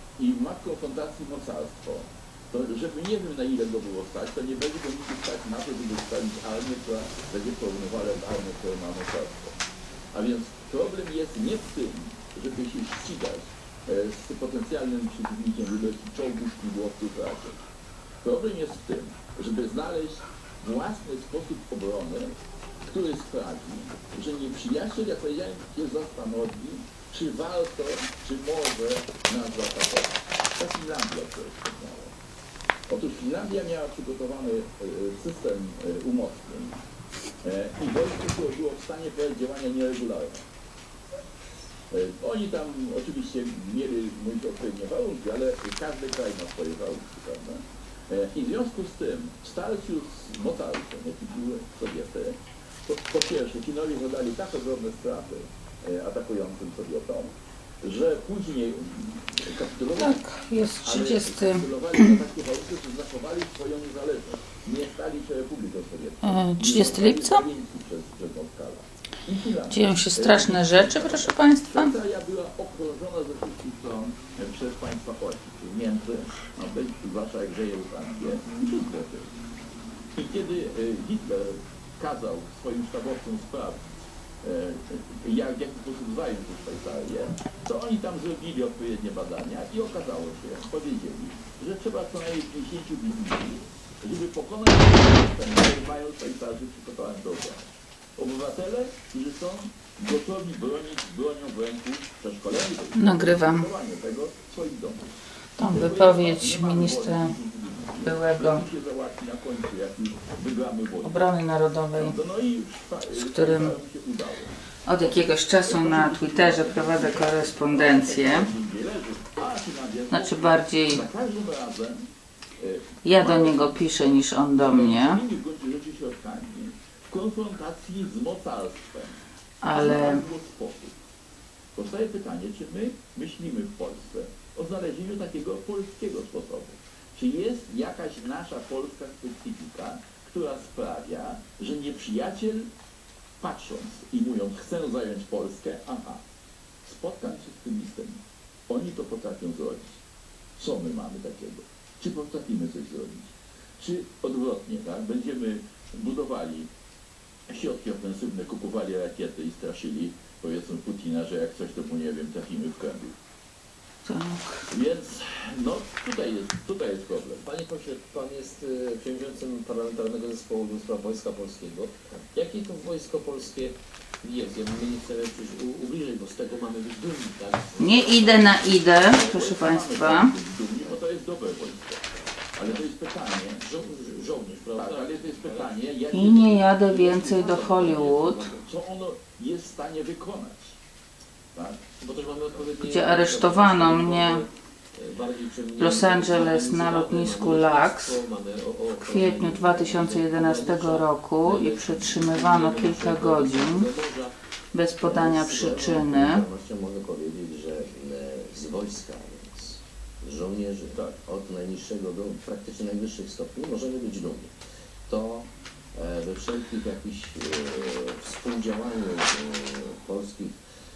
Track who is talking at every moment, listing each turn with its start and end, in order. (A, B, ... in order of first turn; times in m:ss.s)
0:00.2-0:09.6 A
0:10.1-0:17.6 A
0:18.2-0:32.1 A
0:32.9-0:36.8 A
0:37.4-0:40.4 A
0:41.9-1:00.2 A
1:00.0-1:02.1 B
1:00.8-1:19.3 A
1:06.2-1:07.4 B
1:09.7-1:12.0 B
1:20.1-1:23.8 A
1:24.4-1:51.3 A
1:43.0-1:43.7 B
1:45.6-1:47.3 B
1:48.0-1:48.6 B
1:51.0-1:52.2 B
1:52.0-1:54.6 A
1:53.1-1:53.7 B
1:54.9-1:58.5 B
1:55.1-2:03.8 A
2:00.1-2:01.0 B
2:03.0-2:05.2 B
2:04.6-2:11.0 A
2:09.6-2:10.2 B
2:11.8-2:22.7 A
2:23.4-2:26.2 A
2:26.8-2:30.0 A
2:30.6-2:36.7 A
2:37.5-2:43.2 A
2:44.0-2:44.7 B
2:44.7-2:47.4 A
2:47.4-2:59.0 C
2:57.8-3:00.3 B
2:59.0-3:02.0 A
3:02.6-3:03.6 A
3:03.6-3:05.8 C
3:04.8-3:10.8 A
3:06.1-3:08.5 B
3:11.5-3:11.8 A
3:12.0-3:24.3 C
3:12.8-3:14.4 B
3:15.8-3:18.2 B
3:19.0-3:23.9 B
3:24.7-3:26.4 B
3:25.0-3:34.5 D
3:35.1-3:40.6 D